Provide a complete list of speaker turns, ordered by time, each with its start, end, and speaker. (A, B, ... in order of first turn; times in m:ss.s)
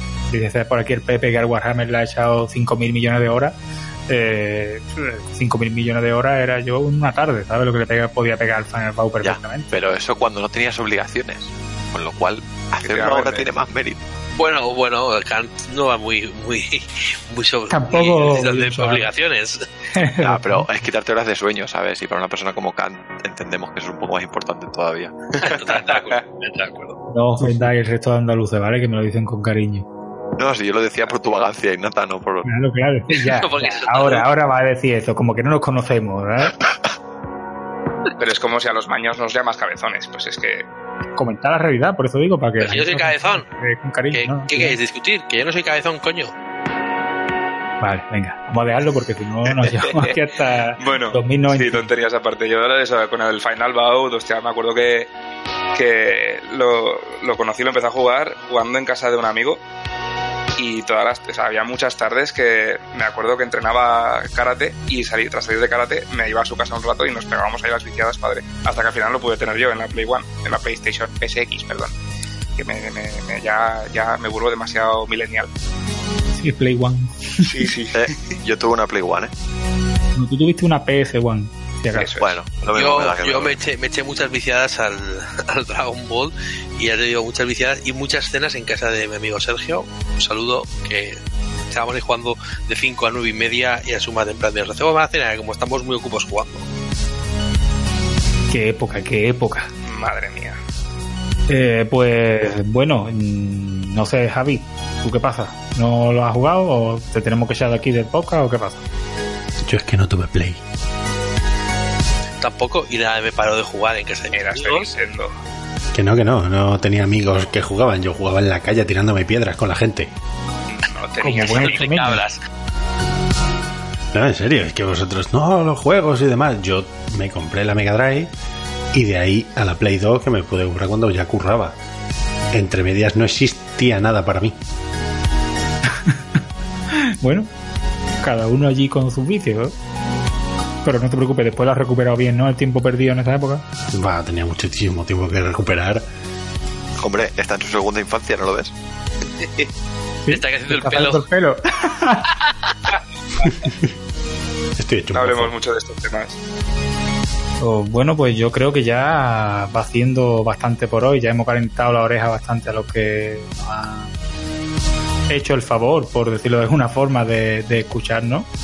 0:00.3-0:03.6 A
0:04.1-0:09.7 A
0:09.2-0:14.1 B
0:12.8-0:13.5 C
0:14.4-0:19.7 D
0:17.7-0:19.1 A
0:19.9-0:20.7 A
0:20.2-0:25.9 B
0:25.4-0:27.0 D
0:27.1-0:29.9 A
0:30.4-0:32.5 B
0:32.4-0:36.6 A
0:33.1-0:34.3 D
0:38.2-0:40.7 C
0:41.2-0:44.8 A
0:42.6-0:43.4 D
0:44.1-0:46.3 D
0:47.8-0:51.9 A
0:49.8-0:50.1 C
0:50.8-0:55.1 C
0:55.8-0:59.6 C
1:00.6-1:12.0 C
1:12.6-1:15.5 C
1:16.4-1:17.7 A
1:17.5-1:18.1 C
1:17.9-1:19.3 B
1:20.2-1:22.1 A
1:21.9-1:22.4 C
1:22.2-1:23.6 B
1:22.7-1:31.2 D
1:31.7-1:36.7 D
1:38.5-1:39.7 A
1:39.8-1:40.6 C
1:41.5-1:48.9 A
1:49.6-1:50.6 E
1:52.4-1:55.0 D
1:54.3-1:55.3 C
1:55.9-2:00.1 E
2:00.7-2:02.2 C
2:01.2-2:02.2 A
2:01.3-2:02.4 D
2:04.1-2:08.3 E
2:08.9-2:11.8 E
2:12.5-2:14.6 E
2:15.9-2:16.2 A
2:16.9-2:17.5 A
2:18.2-2:19.8 A
2:20.8-2:23.6 A
2:23.9-2:26.0 E
2:27.0-2:28.7 B
2:29.4-2:29.7 D
2:30.2-2:32.3 A
2:30.3-2:31.2 D
2:32.4-2:32.9 D
2:33.6-2:33.9 E
2:34.8-2:35.5 E
2:35.1-2:36.4 C
2:37.6-2:44.2 A
2:45.3-2:48.5 A